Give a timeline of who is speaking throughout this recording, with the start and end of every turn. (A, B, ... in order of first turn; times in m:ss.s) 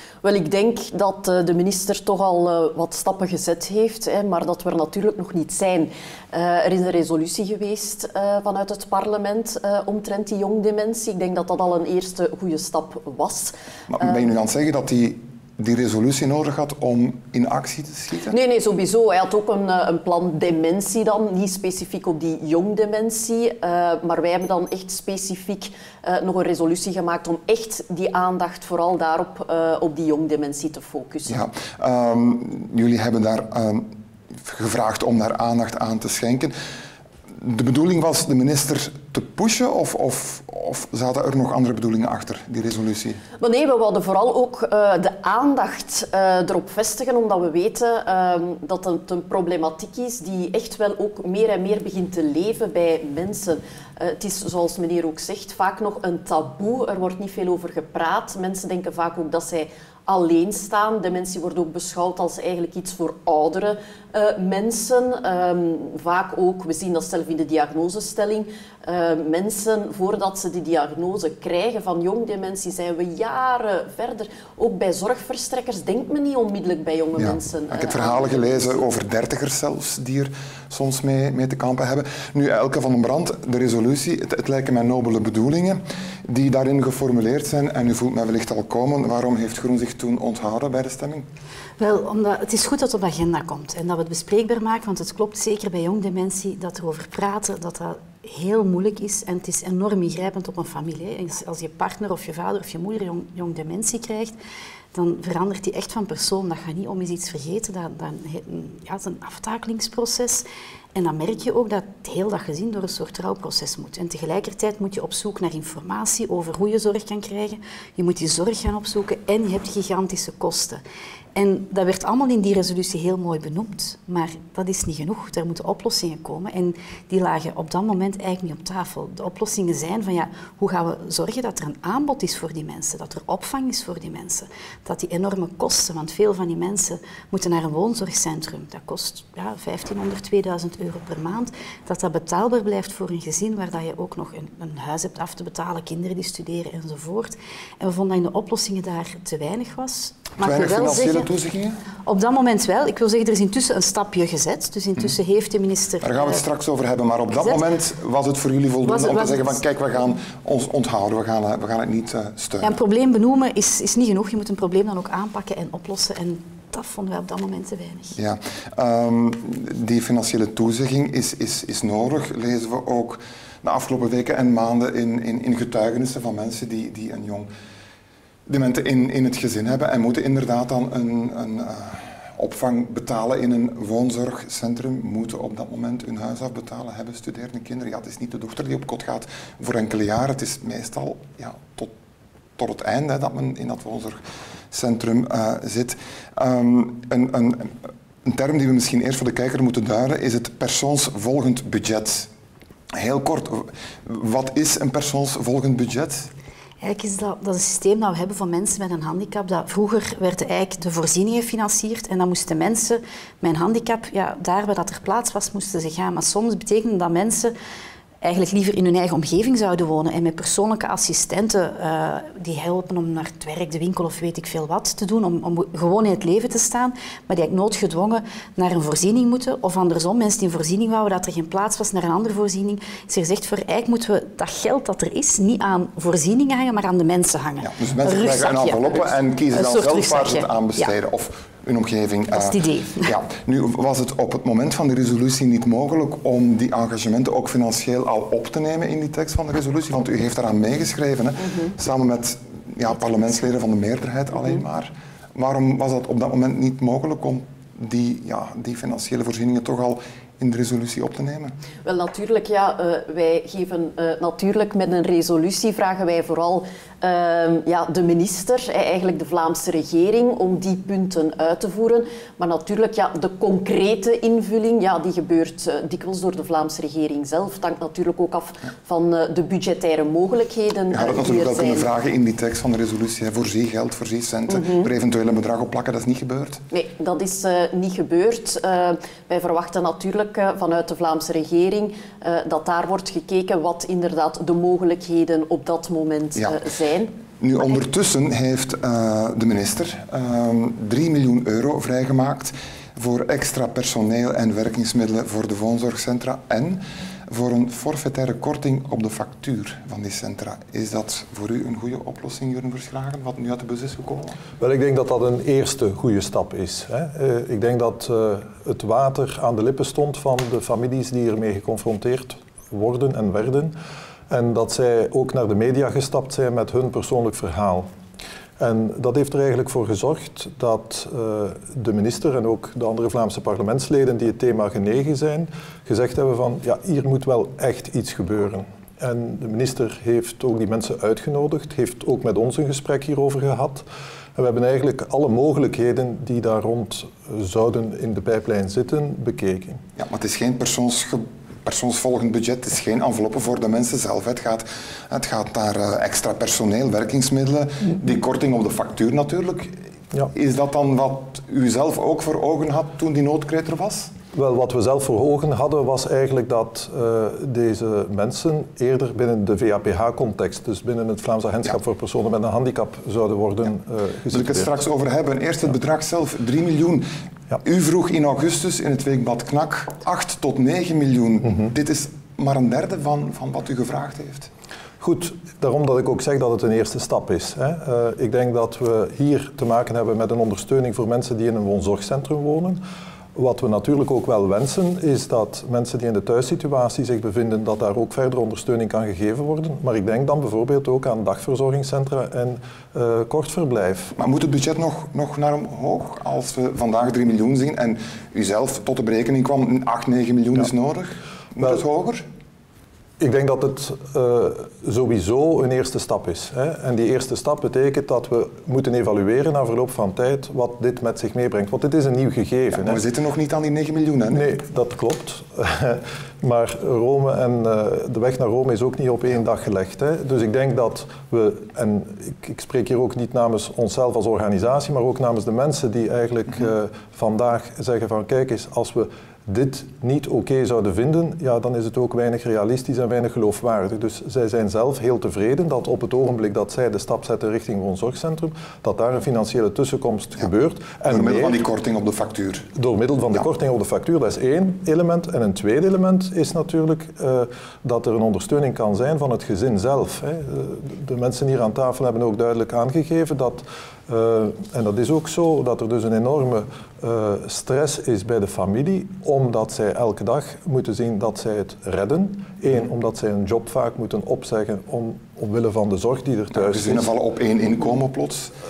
0:00.2-0:14.2 A
0:13.9-0:18.4 B
0:18.3-0:31.4 A
0:31.3-0:33.9 B
0:34.4-0:36.5 B
0:37.4-0:43.2 B
0:43.4-1:18.8 A
1:17.2-1:31.2 B
1:31.8-1:44.4 C
1:44.9-2:00.8 C
2:01.3-2:31.3 C
2:30.4-2:31.8 B
2:32.0-2:36.4 C
2:36.0-2:42.8 B
2:38.8-2:39.6 C
2:42.6-2:48.2 C
2:48.2-2:57.5 B
2:58.4-3:11.9 B
3:12.6-3:14.2 B
3:14.7-3:22.3 B
3:22.9-3:26.3 B
3:26.8-3:37.5 C
3:38.2-4:00.9 C
3:57.6-4:21.5 B
4:02.3-4:03.1 C
4:21.8-4:41.9 A
4:40.9-4:46.6 B
4:44.5-4:44.9 A
4:46.7-4:57.1 A
4:57.4-5:14.4 B
5:14.6-5:23.7 D
5:24.3-5:27.9 D
5:28.6-5:43.8 D
5:44.4-5:49.8 D
5:50.0-6:04.1 B
6:04.3-6:14.8 D
6:14.3-6:17.0 B
6:17.6-6:24.5 B
6:25.0-6:32.8 D
6:33.4-6:44.1 D
6:44.2-6:52.2 B
6:53.2-7:03.0 D
7:02.7-7:04.5 B
7:04.3-7:31.6 D
7:31.1-7:32.7 B
7:32.7-7:57.1 D
7:56.5-7:58.5 B